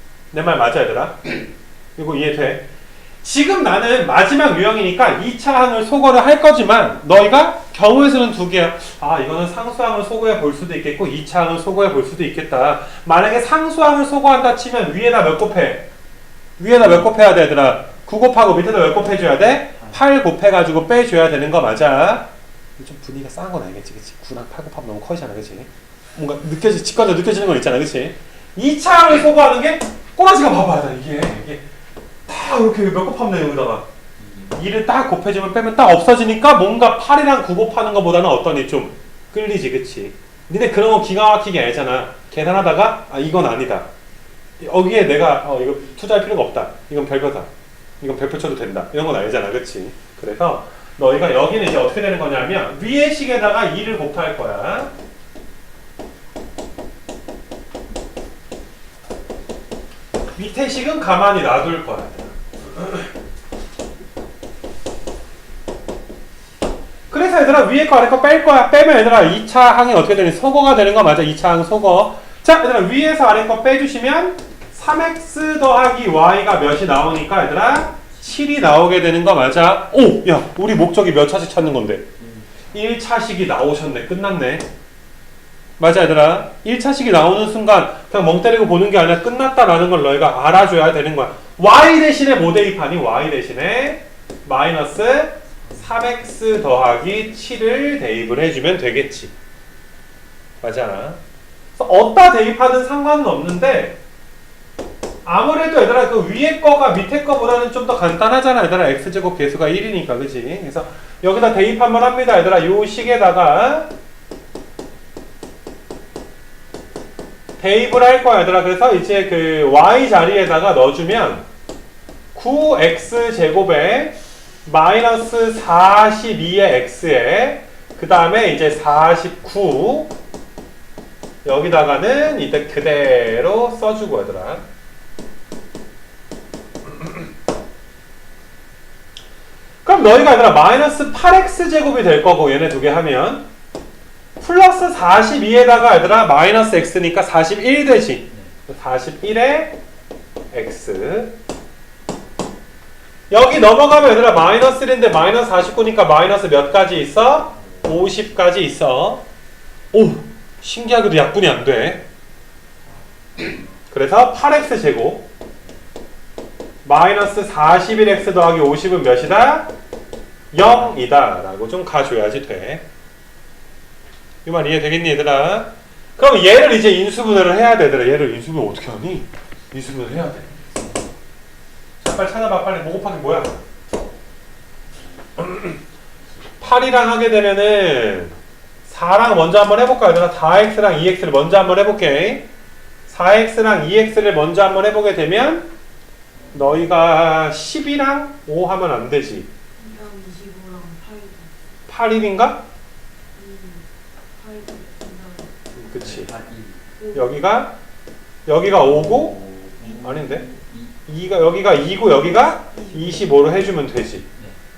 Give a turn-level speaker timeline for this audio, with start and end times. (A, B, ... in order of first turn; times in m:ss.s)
0:00.3-0:01.4 A
0:02.0-0:02.7 A
0:03.2-0:15.9 A
0:16.6-0:31.6 A
0:32.3-0:33.9 A
0:34.2-0:34.5 B
0:34.5-0:43.9 A
0:44.6-0:47.5 A
0:48.0-0:54.9 A
1:00.4-1:03.1 A
1:07.1-1:22.1 A
1:22.7-1:24.7 A
1:25.8-1:39.3 A
1:40.6-1:41.2 A
1:41.8-1:44.0 A
1:45.2-1:53.9 A
1:57.6-2:01.5 A
2:02.3-2:10.1 A
2:11.4-2:14.6 A
2:19.8-2:23.5 A
2:24.4-2:29.8 A
2:30.5-2:31.4 A
2:33.3-2:39.3 A
2:39.9-2:42.0 A
2:42.9-2:43.6 B
2:43.9-2:45.3 A
2:46.8-2:49.7 A
2:50.5-2:52.9 A
2:54.4-3:00.6 A
3:02.0-3:03.6 A
3:05.4-3:05.8 A
3:06.6-3:12.5 A
3:13.1-3:15.7 A
3:16.4-3:16.7 B
3:16.5-3:19.5 A
3:19.8-3:21.8 C
3:21.9-3:22.6 A
3:23.3-3:25.5 C
3:25.7-3:26.3 A
3:26.0-3:26.9 B
3:27.0-3:27.3 C
3:27.1-3:27.8 A
3:28.5-3:29.4 A
3:28.8-3:30.9 B
3:29.9-3:30.4 A
3:31.1-3:34.3 A
3:32.7-3:33.3 C